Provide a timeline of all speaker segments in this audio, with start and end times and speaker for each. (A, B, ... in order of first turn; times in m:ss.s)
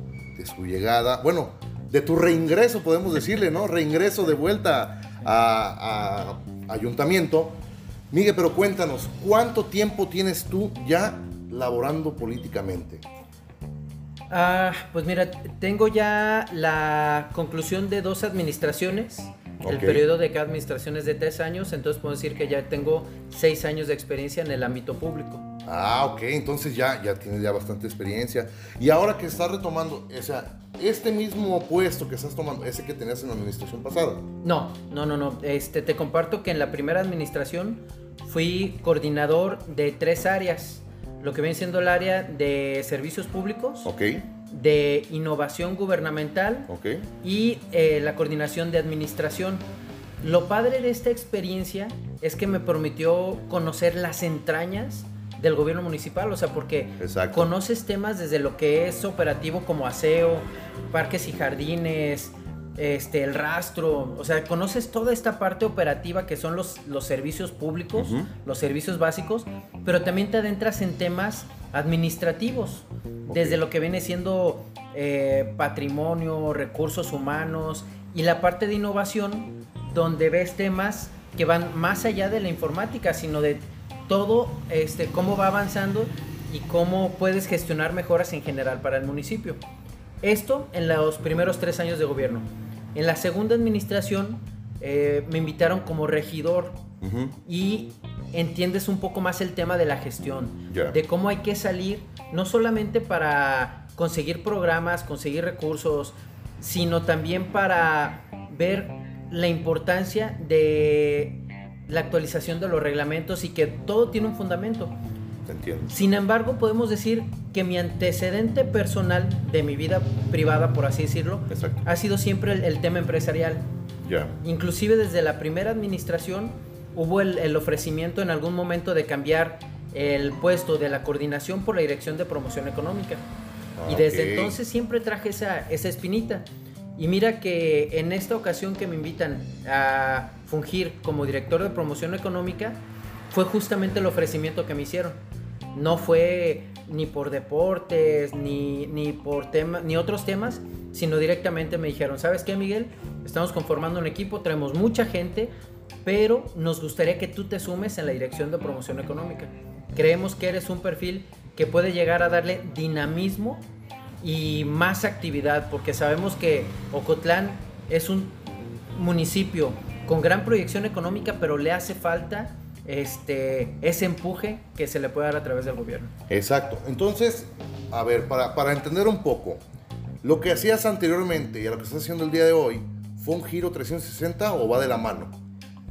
0:00.4-0:07.6 A
0:08.1-0:13.0 A
0:14.3-0:25.5 B
0:19.6-0:20.0 A
0:25.6-0:34.2 A
0:34.4-0:43.9 B
0:43.8-0:44.2 A
0:44.5-0:46.7 B
0:46.7-0:47.1 A
0:47.2-0:49.6 B
0:50.2-1:29.6 B
0:57.0-0:57.5 A
1:08.0-1:08.3 A
1:13.2-1:13.6 A
1:30.2-1:36.8 B
1:37.0-1:37.4 A
1:37.5-1:55.0 B
1:40.7-1:41.0 A
1:55.5-1:55.9 A
1:55.9-2:03.6 B
2:01.5-2:01.8 A
2:04.0-2:04.4 A
2:04.4-2:13.2 B
2:13.8-2:14.6 A
2:13.9-2:25.2 B
2:25.7-2:35.5 B
2:36.0-2:43.6 B
2:44.2-2:48.4 B
2:48.9-2:56.1 B
2:56.3-2:59.6 A
3:00.2-3:05.3 A